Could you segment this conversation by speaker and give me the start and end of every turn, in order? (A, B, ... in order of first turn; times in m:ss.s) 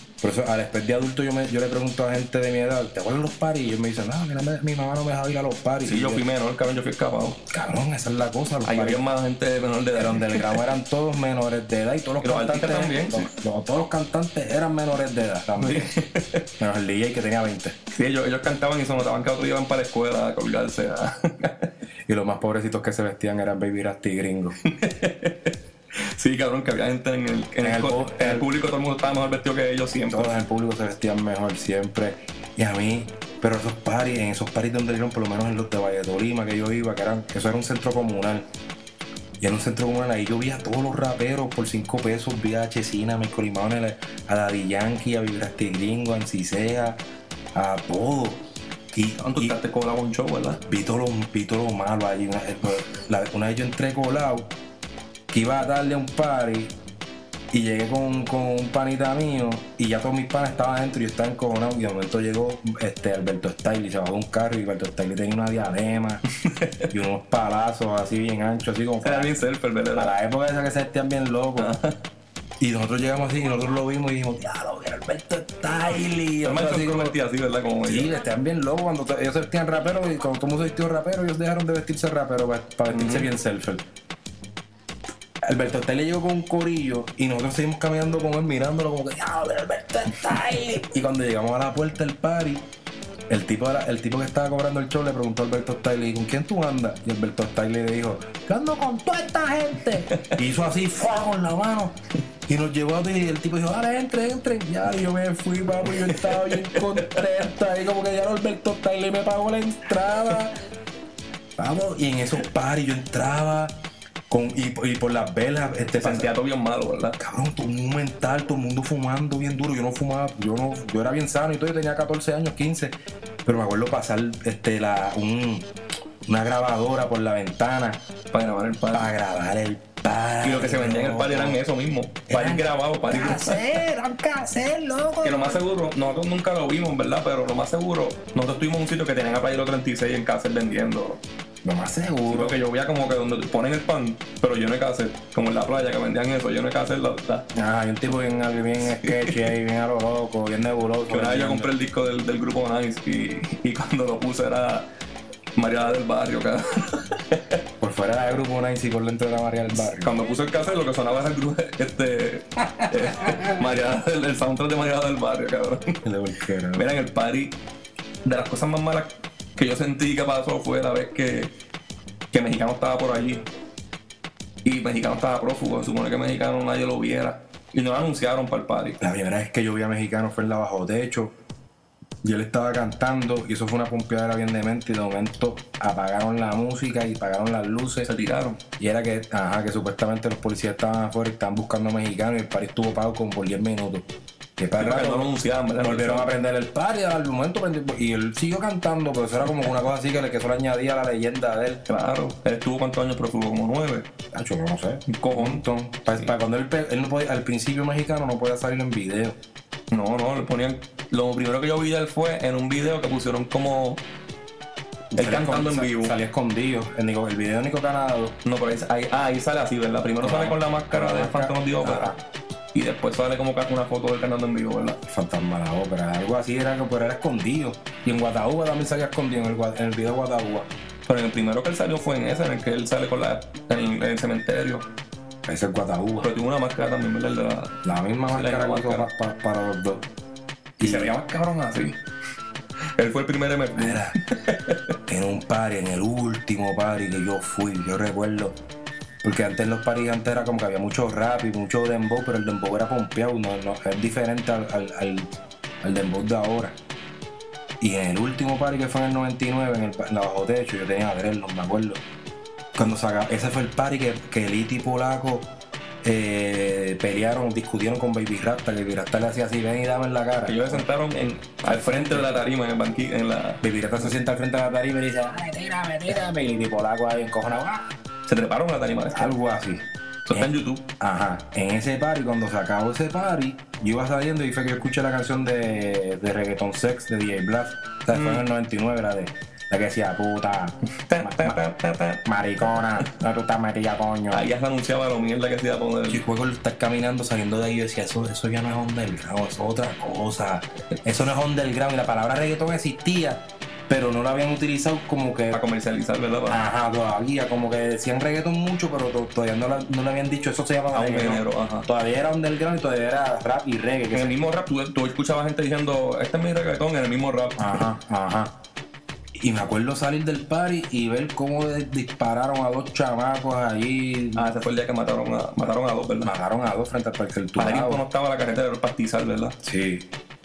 0:00.2-0:06.2 A
0:05.8-0:07.4 B
0:07.5-0:09.0 A
0:08.6-0:10.6 B
0:09.9-0:15.9 A
0:12.2-0:13.3 B
0:15.6-0:16.4 B
0:16.6-0:17.8 A
0:17.9-0:21.7 B
0:22.1-0:24.6 A
0:24.6-0:30.3 B
0:27.6-0:28.5 A
0:30.1-0:38.4 A
0:39.4-0:47.0 A
0:47.5-0:49.6 A
0:49.2-0:50.6 B
0:50.6-0:54.5 A
0:55.3-0:56.7 A
0:57.5-1:06.2 A
1:06.4-1:06.9 B
1:06.9-1:09.3 A
1:09.0-1:10.1 B
1:09.9-1:11.8 A
1:11.6-1:11.9 B
1:12.6-1:17.2 A
1:16.4-1:18.1 B
1:17.8-1:23.8 A
1:22.9-1:23.3 B
1:25.4-1:32.6 A
1:33.3-1:41.9 A
1:42.5-1:50.6 A
1:45.9-1:47.2 B
1:51.6-1:53.7 A
1:54.3-1:56.3 A
1:56.0-1:57.2 B
1:57.2-2:02.9 A
2:03.4-2:05.7 A
2:06.2-2:08.0 A
2:08.3-2:09.1 B
2:08.9-2:11.6 A
2:10.4-2:13.7 B
2:12.3-2:15.6 A
2:15.2-2:21.2 B
2:21.6-2:22.6 A
2:22.3-2:27.4 B
2:27.5-2:31.7 A
2:29.0-2:29.4 B
2:31.1-2:34.9 B
2:35.6-2:37.6 B
2:37.8-2:40.1 A
2:39.8-2:46.0 B
2:42.8-2:43.5 A
2:46.0-2:46.9 A
2:46.7-2:47.6 B
2:48.2-2:51.5 B
2:52.3-2:53.4 B
2:54.6-2:59.0 B
2:59.0-3:01.3 A
3:02.2-3:08.1 A
3:08.0-3:08.6 B
3:08.8-3:21.8 A
3:14.8-3:16.3 B
3:21.9-3:24.1 B
3:24.3-3:29.4 A
3:25.1-3:25.6 B
3:29.9-3:34.0 B
3:35.1-3:38.4 A
3:35.2-3:36.1 B
3:38.4-3:42.1 B
3:40.2-3:42.2 A
3:42.7-3:45.0 B
3:45.0-3:50.7 A
3:51.1-3:54.9 B
3:55.4-3:56.3 A
3:56.2-3:57.8 B
3:57.8-4:00.1 A
3:58.3-3:59.1 B
4:00.8-4:01.1 A
4:00.8-4:02.0 B
4:03.0-4:04.8 B
4:03.8-4:04.1 A
4:05.1-4:08.6 A
4:09.2-4:15.3 A
4:15.8-4:16.8 A
4:17.8-4:22.0 A
4:22.7-4:25.5 A
4:26.0-4:30.9 A
4:30.5-4:33.6 B
4:31.6-4:32.3 A
4:33.6-4:37.9 A
4:38.3-4:39.3 B
4:39.1-4:51.6 A
4:40.2-4:40.8 B
4:48.1-4:48.4 B
4:51.0-4:52.2 B
4:52.2-4:54.4 A
4:54.3-4:56.2 B
4:56.1-5:05.6 A
5:05.5-5:06.6 B
5:06.5-5:14.4 A
5:10.9-5:11.9 B
5:14.1-5:17.9 B
5:17.6-5:18.5 A
5:19.4-5:24.4 A
5:24.4-5:26.3 B
5:26.2-5:28.0 A
5:27.6-5:29.6 B
5:29.6-5:30.0 A